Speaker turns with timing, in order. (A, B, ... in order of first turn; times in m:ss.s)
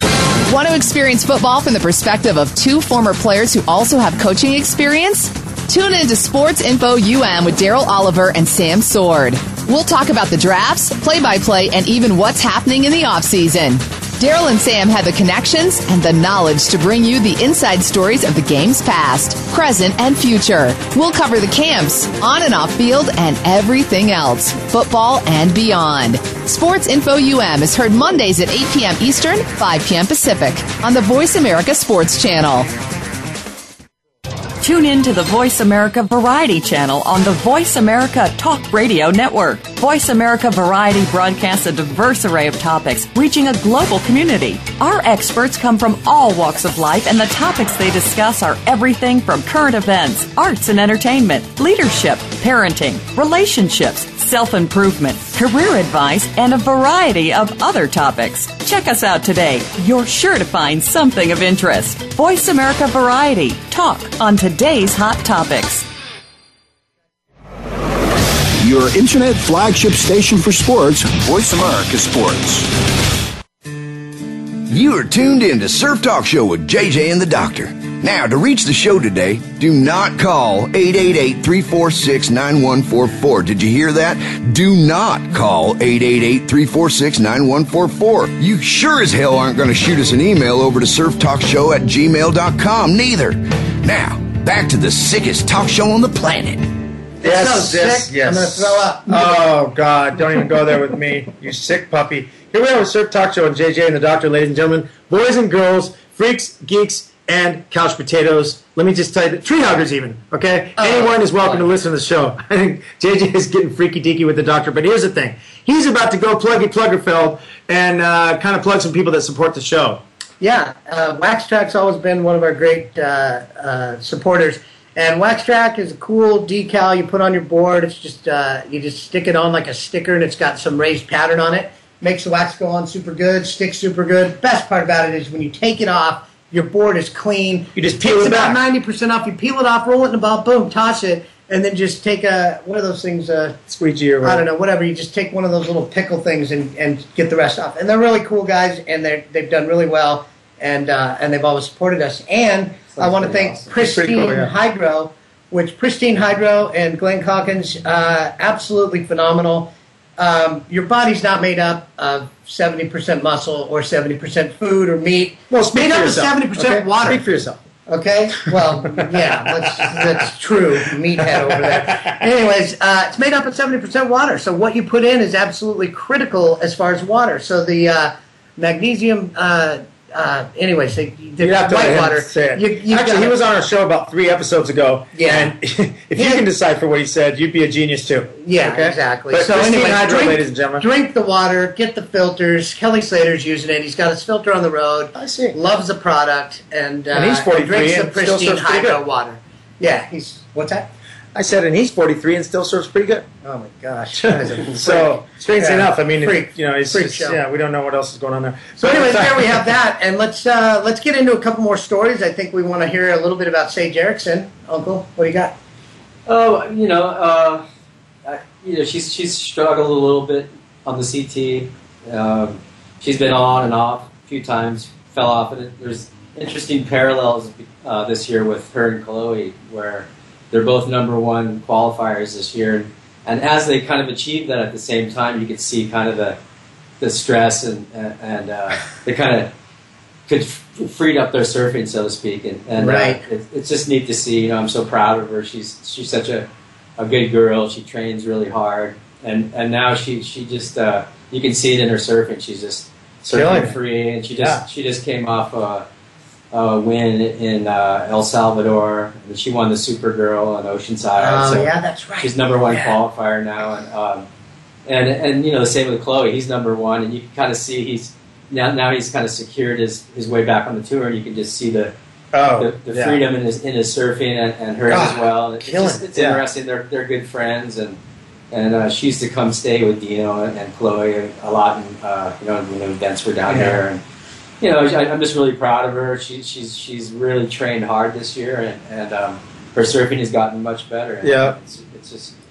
0:00.5-0:32.7 A
0:34.6-1:05.8 B
1:08.6-1:12.7 C
1:14.7-1:36.6 D
1:37.2-1:39.4 E
1:37.2-2:00.0 F
1:50.8-1:51.7 E
2:00.4-2:23.6 E
2:17.7-2:18.6 F
2:23.7-2:24.4 F
2:24.2-2:47.2 E
2:32.9-2:33.7 G
2:33.8-2:34.5 F
2:45.5-2:47.6 F
2:47.9-3:03.3 E
2:48.4-2:50.3 F
2:51.1-2:52.2 F
3:01.4-3:10.9 F
3:05.1-3:05.5 E
3:06.1-3:06.4 E
3:08.4-3:20.9 E
3:15.1-3:15.6 F
3:17.1-3:19.0 F
3:21.3-3:23.2 F
3:23.4-3:27.4 E
3:24.1-3:29.7 F
3:28.8-3:35.5 E
3:36.3-3:37.6 G
3:38.2-3:56.4 G
3:57.0-3:59.5 G
4:00.3-4:15.8 G
4:02.8-4:03.2 E
4:13.2-4:13.8 F
4:14.4-4:14.6 F
4:16.5-4:24.2 G
4:21.2-4:23.0 E
4:24.8-4:31.9 G
4:32.3-4:33.2 F
4:32.6-4:38.0 G
4:34.9-4:36.4 F
4:38.5-4:44.0 G
4:43.5-4:43.8 F
4:44.6-4:52.3 G
4:51.2-4:51.6 F